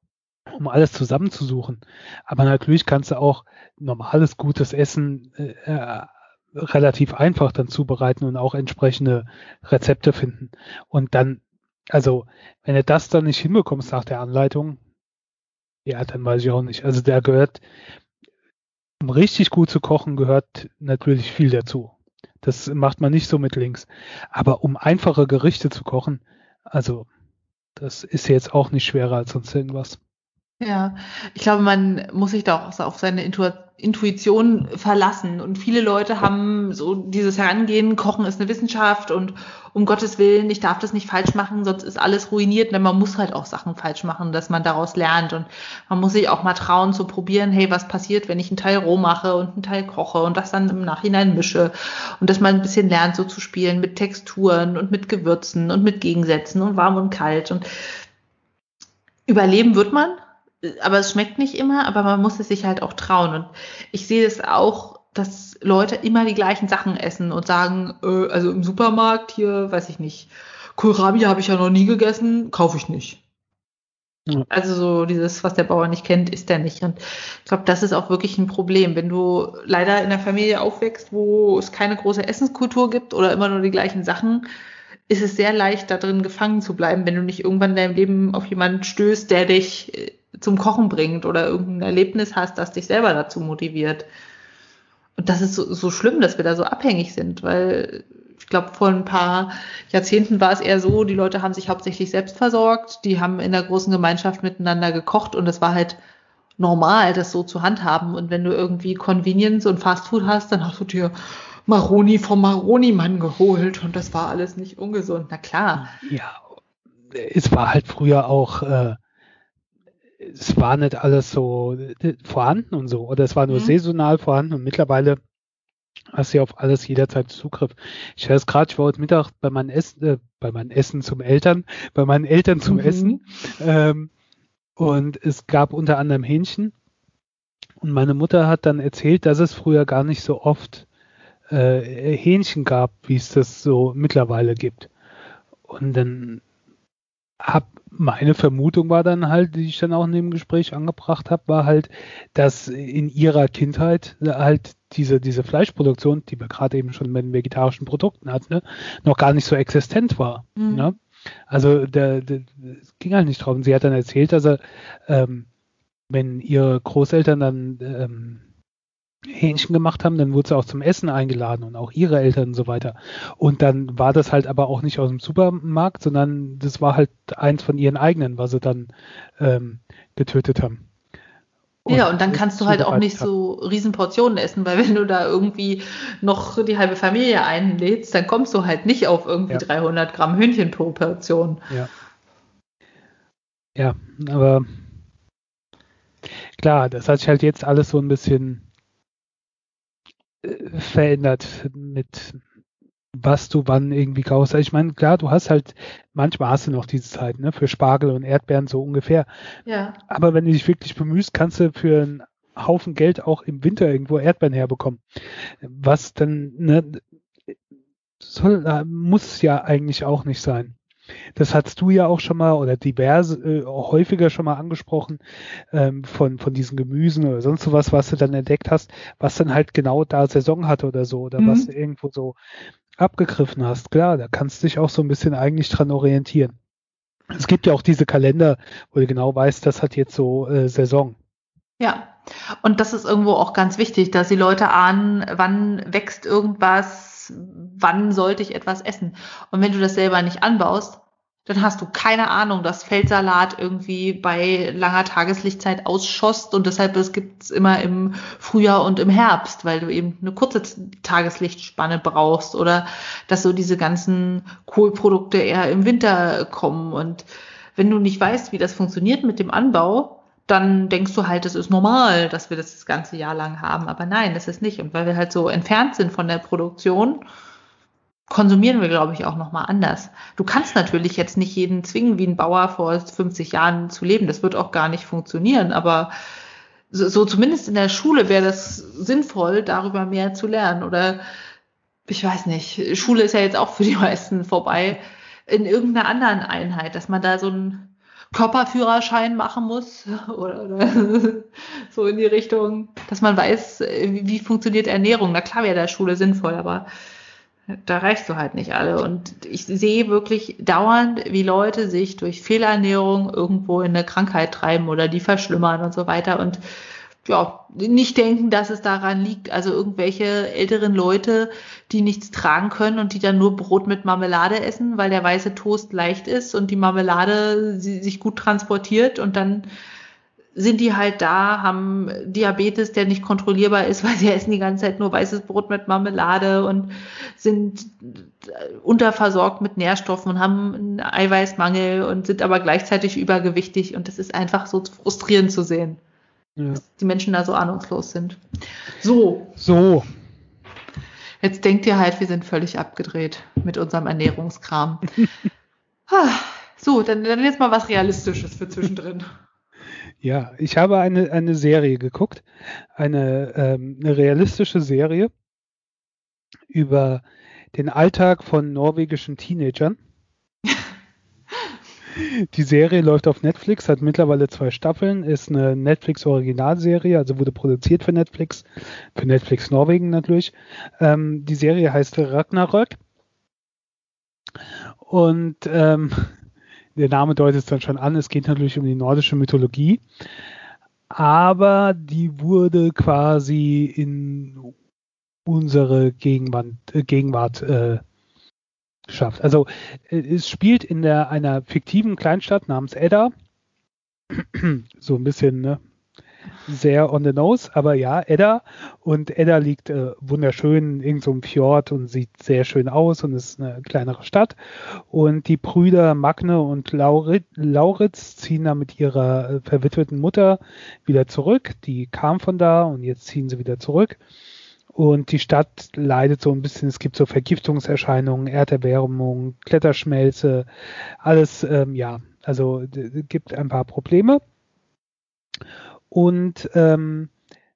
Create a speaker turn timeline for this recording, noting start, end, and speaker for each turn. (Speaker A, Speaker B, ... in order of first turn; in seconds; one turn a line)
Speaker A: 0.5-14.8
Speaker A: 15.9-17.6
Speaker A: 19.0-27.1
Speaker A: 27.8-30.0
Speaker B: 30.6-57.6
Speaker B: 59.3-73.2
Speaker B: 74.5-84.5
Speaker B: 85.1-94.1
Speaker B: 95.2-106.0
Speaker B: 106.6-111.2
Speaker B: 111.7-115.9
Speaker A: 115.8-116.4
Speaker A: 117.1-119.0
Speaker A: 120.2-125.2
Speaker B: 123.5-123.8
Speaker A: 126.1-134.1
Speaker B: 132.7-133.2
Speaker A: 134.8-136.7
Speaker A: 137.8-140.9
Speaker A: 141.5-144.9
Speaker A: 145.7-146.4
Speaker A: 147.4-160.9
Speaker B: 160.6-160.9
Speaker A: 161.5-165.5
Speaker A: 166.1-168.4
Speaker A: 169.3-180.8
Speaker A: 181.9-183.3
Speaker B: 181.9-191.6
Speaker A: 193.8-194.8
Speaker A: 196.6-198.7
Speaker A: 200.4-202.4
Speaker A: 203.2-209.3
Speaker B: 209.7-210.0
Speaker A: 210.1-217.0
Speaker A: 218.2-220.8
Speaker A: 221.4-232.4
Speaker B: 231.4-231.7
Speaker A: 233.0-236.6
Speaker A: 237.3-241.2
Speaker B: 241.8-277.2
Speaker B: 278.3-286.1
Speaker B: 286.9-291.2
Speaker B: 292.1-306.9
Speaker B: 307.9-316.6
Speaker B: 317.2-329.7
Speaker B: 330.6-346.0
Speaker B: 346.8-348.4
Speaker B: 349.0-349.6
Speaker A: 349.6-350.1
Speaker B: 351.4-355.2
Speaker B: 356.1-359.3
Speaker A: 360.2-365.3
Speaker A: 366.7-367.2
Speaker A: 367.7-370.0
Speaker A: 372.1-383.0
Speaker A: 385.0-386.3
Speaker A: 386.9-390.0
Speaker A: 391.1-394.7
Speaker A: 395.5-398.0
Speaker A: 399.1-403.3
Speaker A: 404.3-405.8
Speaker A: 406.7-424.2
Speaker A: 424.9-430.7
Speaker A: 431.2-434.4
Speaker A: 436.1-437.3